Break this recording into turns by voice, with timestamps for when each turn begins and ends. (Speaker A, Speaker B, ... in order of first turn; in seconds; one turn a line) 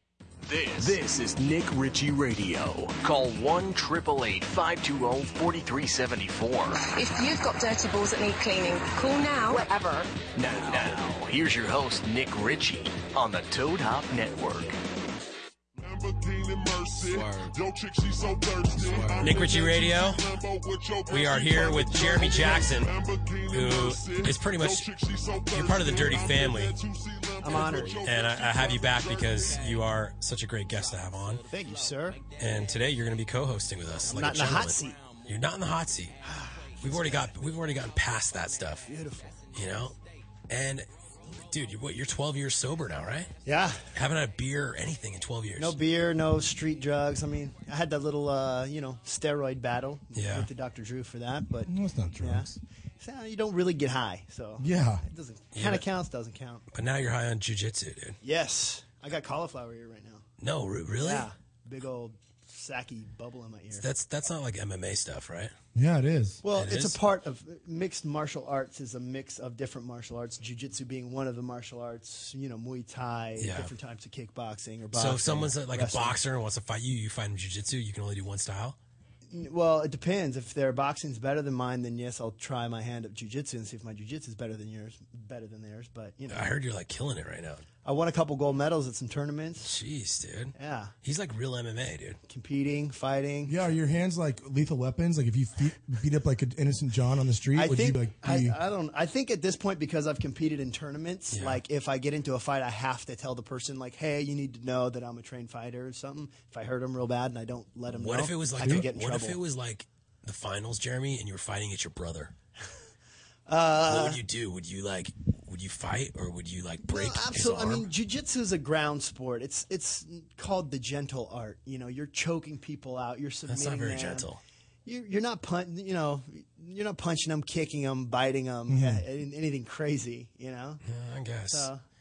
Speaker A: 0.5-6.8
Speaker B: 6.7-10.0
Speaker A: 10.4-14.8
Speaker C: 10.5-11.0
Speaker D: 15.8-29.7
Speaker C: 18.9-20.2
Speaker C: 21.1-22.9
Speaker C: 23.5-24.9
Speaker C: 25.5-26.8
Speaker E: 27.4-28.0
Speaker C: 28.0-31.4
Speaker E: 31.4-32.2
Speaker C: 32.4-36.2
Speaker E: 34.1-35.0
Speaker E: 36.2-36.7
Speaker C: 36.8-38.9
Speaker E: 38.8-39.3
Speaker C: 39.5-39.9
Speaker C: 40.5-43.3
Speaker E: 43.4-43.9
Speaker C: 43.9-45.8
Speaker E: 45.6-56.6
Speaker C: 50.1-50.5
Speaker F: 51.7-52.6
Speaker F: 54.6-55.0
Speaker C: 55.5-55.8
Speaker C: 56.7-58.2
Speaker E: 58.2-60.2
Speaker C: 60.4-61.3
Speaker E: 61.0-63.9
Speaker C: 63.7-65.5
Speaker F: 65.7-66.4
Speaker E: 66.4-76.2
Speaker C: 66.5-67.0
Speaker C: 73.4-73.7
Speaker C: 74.9-78.8
Speaker E: 79.3-86.5
Speaker C: 86.3-87.6
Speaker E: 87.8-89.7
Speaker C: 89.6-92.2
Speaker E: 90.5-90.9
Speaker E: 92.3-93.6
Speaker F: 93.5-98.5
Speaker E: 97.5-109.4
Speaker C: 101.3-101.6
Speaker C: 107.9-112.3
Speaker E: 113.5-114.2
Speaker C: 113.9-117.9
Speaker E: 116.8-124.2
Speaker C: 123.5-124.4
Speaker E: 124.8-130.8
Speaker F: 128.7-129.0
Speaker C: 130.8-131.7
Speaker E: 131.5-131.8